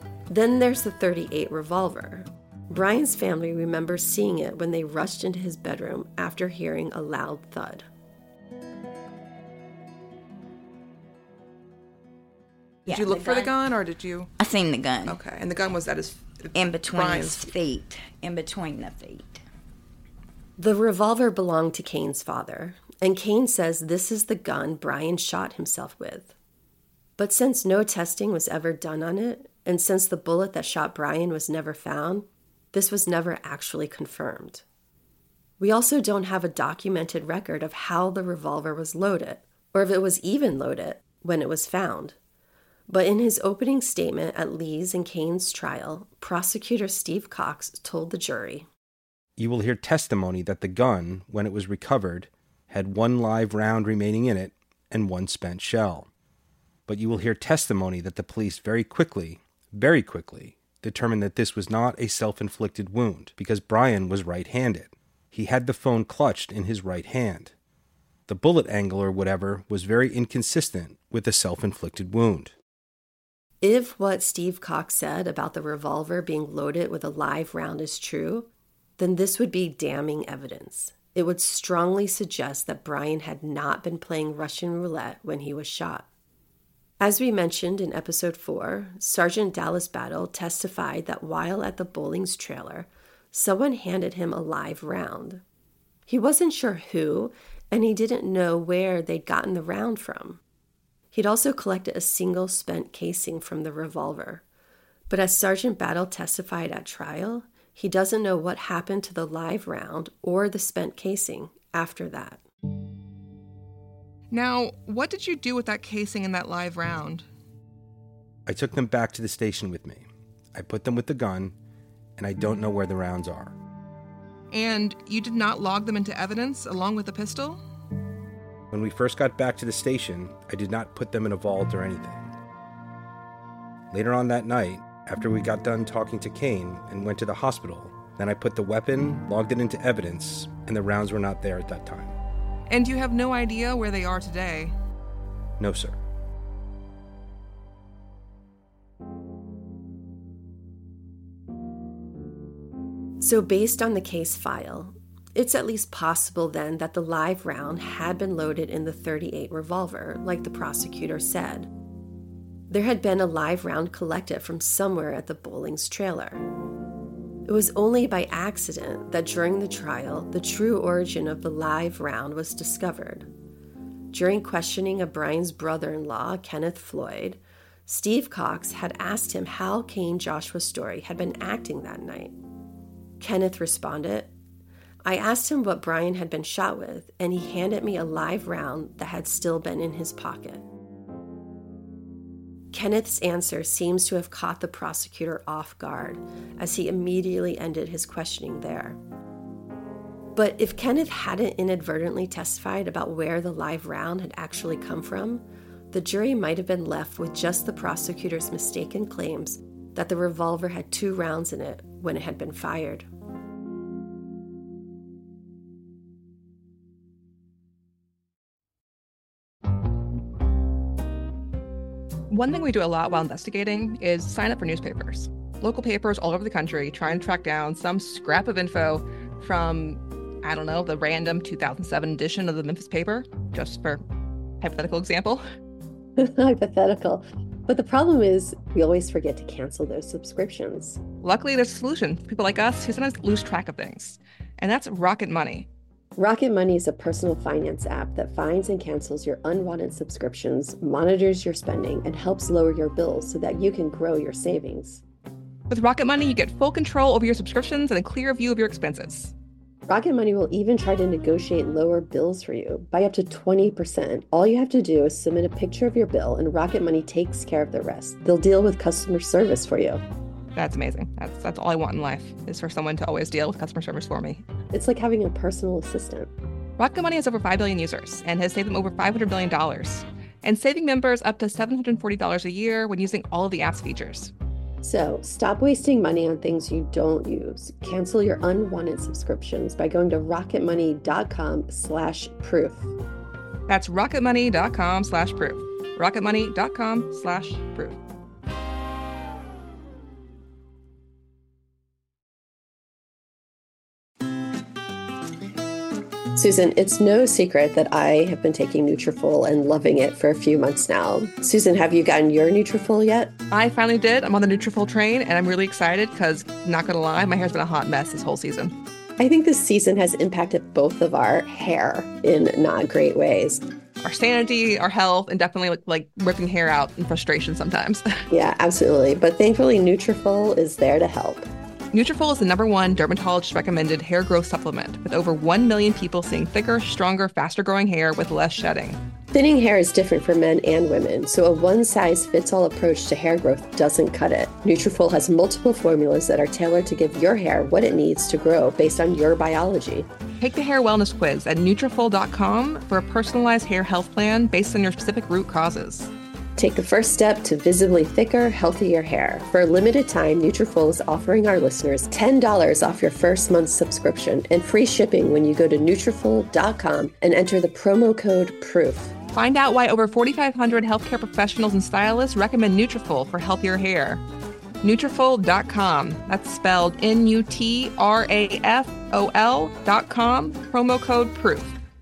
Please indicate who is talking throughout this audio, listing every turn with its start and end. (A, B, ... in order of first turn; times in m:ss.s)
0:00.3-0:07.8 A
0:12.9-0:13.5 B
0:12.9-0:14.3 C
0:14.4-0:15.2 B
0:15.0-0:17.5 C
0:16.5-0:19.4 B
0:20.6-0:26.3 A
0:27.2-0:34.6 A
0:35.6-0:42.2 A
0:42.9-0:48.7 A
0:49.4-0:56.1 D
0:56.9-1:07.5 D
1:08.3-1:12.5 D
1:13.6-1:26.0 A
1:27.0-1:35.4 A
1:36.1-1:40.4 A
1:41.1-1:44.4 A
1:45.1-1:52.4 A
1:54.3-1:57.2 C
1:58.4-2:01.6 D
2:02.2-2:03.5 D
2:04.5-2:07.6 C
2:08.7-2:12.3 D
2:13.9-2:22.1 D
2:22.7-2:24.7 C
2:25.6-2:26.0 D
2:33.2-2:41.7 A
2:42.7-2:46.4 A
2:47.4-2:53.3 A
2:54.1-3:02.4 A
3:03.2-3:04.3 A
3:05.0-3:10.6 A
3:12.7-3:19.0 A
3:20.3-3:33.1 A
3:42.3-3:54.0 C
3:54.6-3:55.4 C
3:56.2-4:01.0 A
4:01.2-4:05.7 C
4:06.2-4:15.0 A
4:15.7-4:19.3 C
4:19.9-4:30.0 A
4:30.5-4:34.4 C
4:34.7-4:36.3 A
4:36.8-4:44.3 C
4:44.8-4:52.9 A
4:53.7-4:58.0 C
5:06.3-5:13.3 A
5:13.5-5:18.8 C
5:19.2-5:23.6 A
5:24.0-5:28.2 C
5:28.3-5:31.5 A
5:31.9-5:39.0 C
5:39.3-5:50.1 A
5:50.4-5:56.1 C
5:56.6-6:09.1 A
6:09.3-6:14.2 C
6:14.8-6:21.7 C